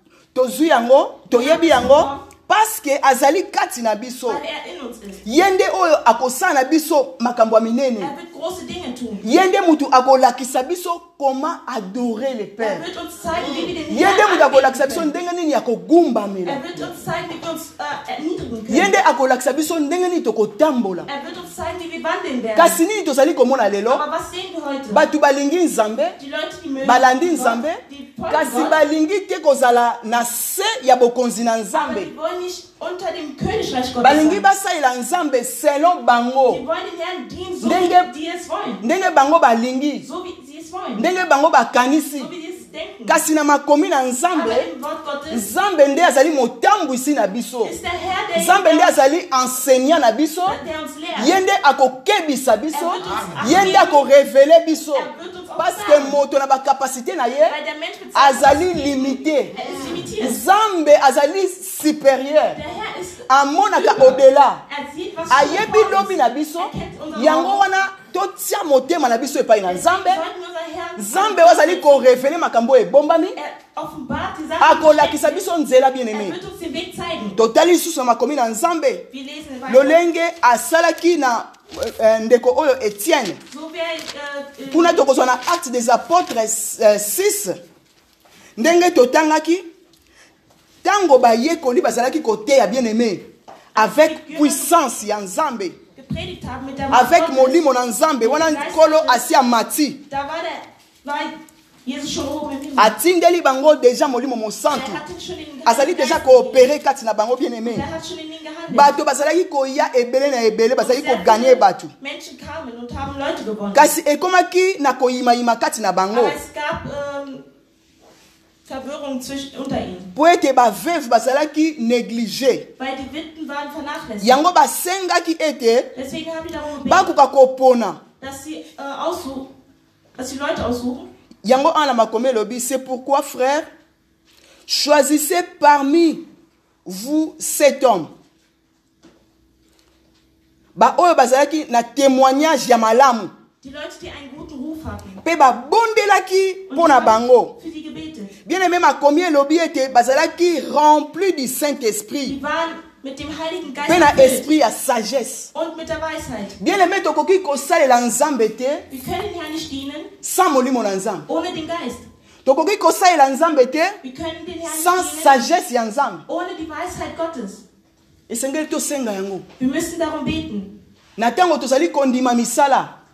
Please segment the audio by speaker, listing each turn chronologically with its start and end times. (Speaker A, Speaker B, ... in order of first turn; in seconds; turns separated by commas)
Speaker A: 0.3-4.4, Speaker B: 1.3-2.2, Speaker B: 4.3-5.2, Speaker A: 5.2-8.1, Speaker B: 8.0-9.3, Speaker A: 9.2-12.8, Speaker B: 12.6-15.1, Speaker A: 13.9-16.6, Speaker B: 16.4-18.9, Speaker A: 18.7-21.1, Speaker B: 21.1-22.8, Speaker A: 22.6-24.0, Speaker B: 23.9-25.0, Speaker A: 24.9-26.2, Speaker B: 26.2-28.8, Speaker A: 26.8-32.1, Speaker B: 31.7-34.4, Speaker A: 34.0-36.6, Speaker B: 36.5-38.8, Speaker A: 37.6-38.1, Speaker A: 38.8-40.1, Speaker B: 40.0-41.1, Speaker A: 41.0-42.3, Speaker B: 42.2-43.2, Speaker A: 43.1-44.7, Speaker B: 44.3-45.5, Speaker A: 45.3-47.8, Speaker B: 47.6-49.0, Speaker A: 48.4-50.6, Speaker B: 50.5-51.4, Speaker A: 51.2-57.6, Speaker B: 52.7-54.0, Speaker B: 54.9-56.2, Speaker B: 57.5-60.4, Speaker A: 58.1-59.6, Speaker A: 60.1-62.6, Speaker B: 62.5-67.6, Speaker A: 63.3-64.6, Speaker A: 65.3-70.2, Speaker B: 69.7-72.1, Speaker A: 71.0-73.4, Speaker B: 73.3-75.5, Speaker A: 74.6-76.4, Speaker B: 76.1-77.4, Speaker A: 77.4-79.0, Speaker B: 79.1-80.0, Speaker A: 79.7-83.4, Speaker B: 83.5-85.0, Speaker A: 84.7-87.6, Speaker A: 88.6-89.7, Speaker A: 90.8-95.8, Speaker B: 93.8-94.7, Speaker B: 96.0-97.6, Speaker A: 96.9-100.0, Speaker B: 98.2-99.2, Speaker B: 100.1-101.3, Speaker B: 101.8-102.9, Speaker A: 102.8-105.0, Speaker B: 104.7-106.7, Speaker A: 105.7-107.9, Speaker B: 107.7-108.9, Speaker A: 108.7-111.9, Speaker B: 110.8-113.9, Speaker A: 113.7-116.4, Speaker B: 116.1-117.4, Speaker B: 118.7-120.1, Speaker A: 120.2-122.7, Speaker B: 122.8-124.4, Speaker A: 124.2-125.9, Speaker B: 125.9-127.1, Speaker A: 126.8-128.0, Speaker B: 128.2-129.5, Speaker B: 130.2-131.1, Speaker A: 131.4-133.7, Speaker A: 134.7-136.2, Speaker A: 136.8-138.1, Speaker A: 140.8-143.3, Speaker B: 143.6-145.2, Speaker A: 145.2-147.5, Speaker B: 146.7-148.3, Speaker A: 148.4-152.4, Speaker B: 152.2-154.5, Speaker A: 153.8-155.5, Speaker B: 155.5-156.6, Speaker A: 156.6-158.8, Speaker B: 158.9-160.1, Speaker A: 160.2-161.3, Speaker B: 161.3-162.1, Speaker A: 162.4-164.0, Speaker B: 164.0-165.5, Speaker A: 164.7-166.2, Speaker B: 166.3-167.6, Speaker A: 168.3-169.4, Speaker B: 169.6-170.7, Speaker A: 171.2-172.9